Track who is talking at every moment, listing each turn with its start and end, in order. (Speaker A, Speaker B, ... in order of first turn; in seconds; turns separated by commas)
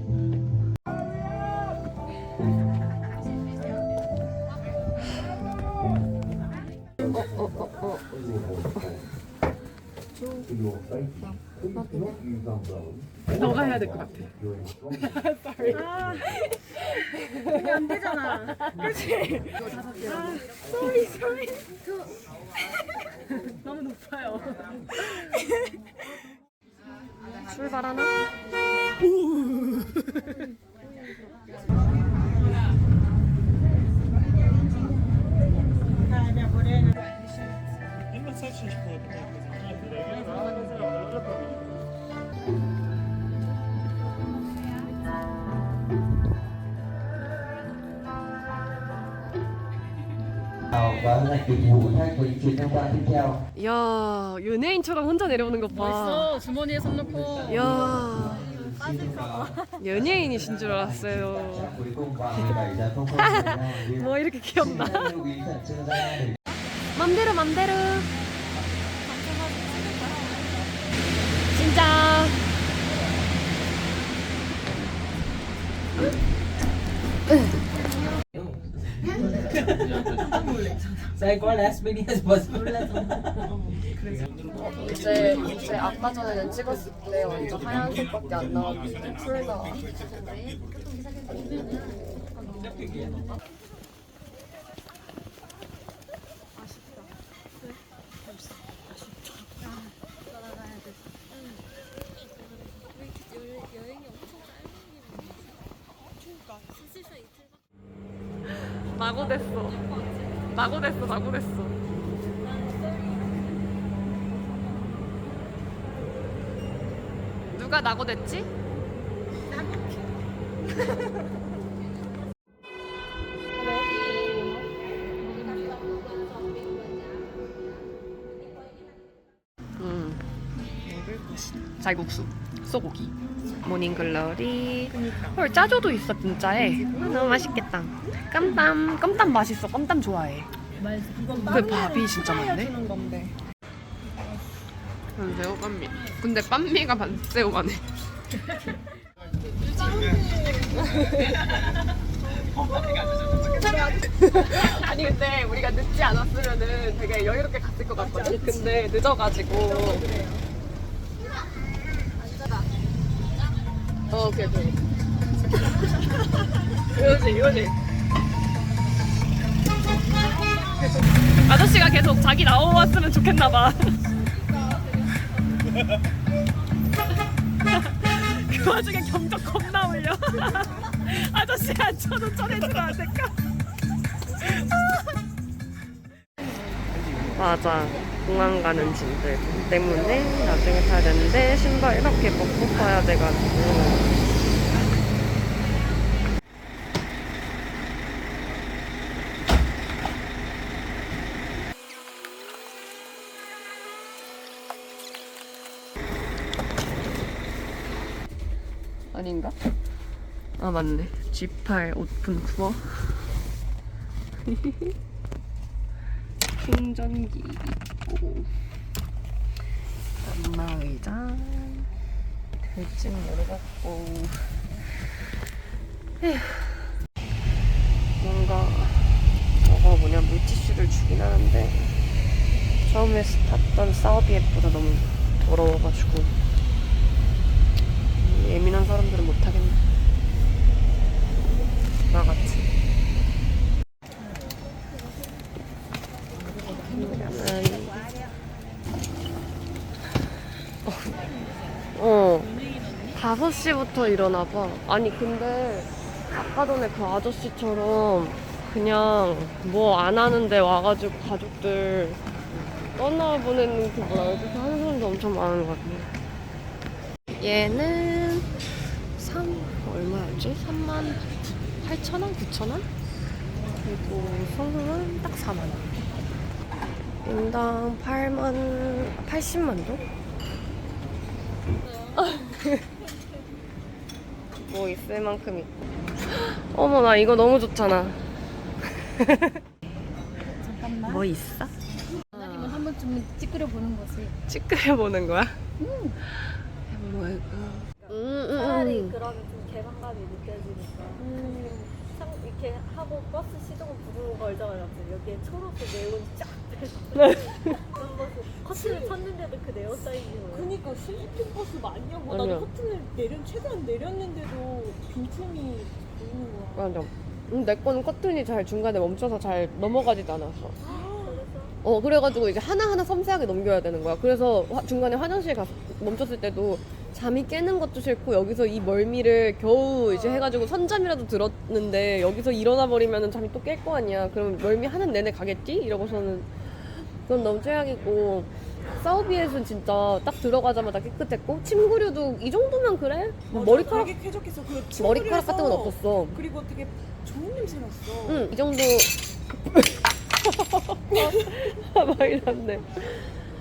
Speaker A: 7.0-9.0, Speaker A: 10.2-10.5, Speaker A: 11.7-12.2, Speaker A: 13.3-14.3, Speaker A: 14.8-16.4, Speaker B: 15.7-16.2, Speaker A: 17.0-18.9, Speaker B: 17.5-20.9, Speaker A: 19.5-21.2, Speaker C: 19.9-20.3, Speaker B: 23.6-24.7, Speaker A: 27.4-28.1, Speaker D: 50.7-53.4, Speaker A: 53.5-56.4, Speaker C: 55.7-57.7, Speaker D: 56.7-66.3, Speaker A: 57.5-58.7, Speaker A: 59.8-61.8, Speaker A: 62.3-65.2, Speaker A: 66.9-68.1, Speaker A: 71.5-72.4, Speaker E: 79.1-80.4, Speaker E: 81.2-83.3, Speaker A: 84.5-89.8, Speaker E: 92.5-93.1, Speaker A: 108.9-109.9, Speaker A: 110.5-111.8, Speaker F: 112.5-113.2, Speaker A: 117.5-118.5, Speaker A: 123.6-124.1, Speaker A: 129.8-130.2, Speaker A: 131.7-140.5, Speaker B: 134.9-135.4, Speaker C: 140.8-141.6, Speaker B: 141.1-143.4, Speaker A: 141.4-142.7, Speaker A: 145.2-147.8, Speaker B: 149.6-151.0, Speaker A: 150.7-151.6, Speaker B: 152.2-154.0, Speaker A: 153.1-160.1, Speaker B: 157.9-158.9, Speaker B: 159.5-160.4, Speaker A: 164.1-164.8, Speaker A: 165.6-167.7, Speaker A: 170.8-174.0, Speaker A: 177.7-183.3, Speaker A: 187.3-194.2, Speaker A: 209.1-209.6, Speaker A: 210.6-213.2, Speaker A: 214.5-214.9, Speaker A: 216.6-218.5, Speaker A: 220.2-221.9, Speaker A: 222.7-224.6, Speaker A: 226.2-226.9, Speaker A: 228.2-231.9, Speaker A: 232.8-236.3, Speaker A: 238.2-239.8, Speaker A: 242.1-242.7, Speaker A: 246.8-248.0, Speaker A: 250.8-251.2, Speaker A: 251.9-252.6, Speaker A: 253.1-262.2, Speaker A: 262.9-266.1, Speaker A: 267.4-268.5, Speaker A: 269.2-271.3, Speaker A: 271.8-272.9, Speaker A: 273.8-275.9, Speaker A: 277.2-280.0, Speaker A: 282.1-282.9, Speaker A: 284.6-285.7, Speaker A: 286.3-288.2, Speaker A: 288.9-289.6, Speaker B: 290.6-291.2, Speaker A: 291.0-291.7, Speaker A: 292.3-292.9, Speaker C: 292.3-294.3, Speaker A: 294.5-295.6, Speaker C: 295.8-296.2, Speaker A: 296.9-299.2, Speaker F: 298.5-310.7, Speaker B: 301.2-301.9, Speaker A: 307.2-307.7, Speaker B: 308.7-309.2, Speaker B: 310.5-317.0, Speaker A: 312.3-312.7, Speaker A: 316.7-320.8, Speaker B: 320.8-321.4, Speaker F: 320.8-321.8, Speaker A: 321.8-344.1, Speaker F: 330.0-330.6, Speaker B: 343.5-348.6, Speaker F: 343.8-344.1, Speaker A: 344.9-346.4, Speaker A: 348.2-353.2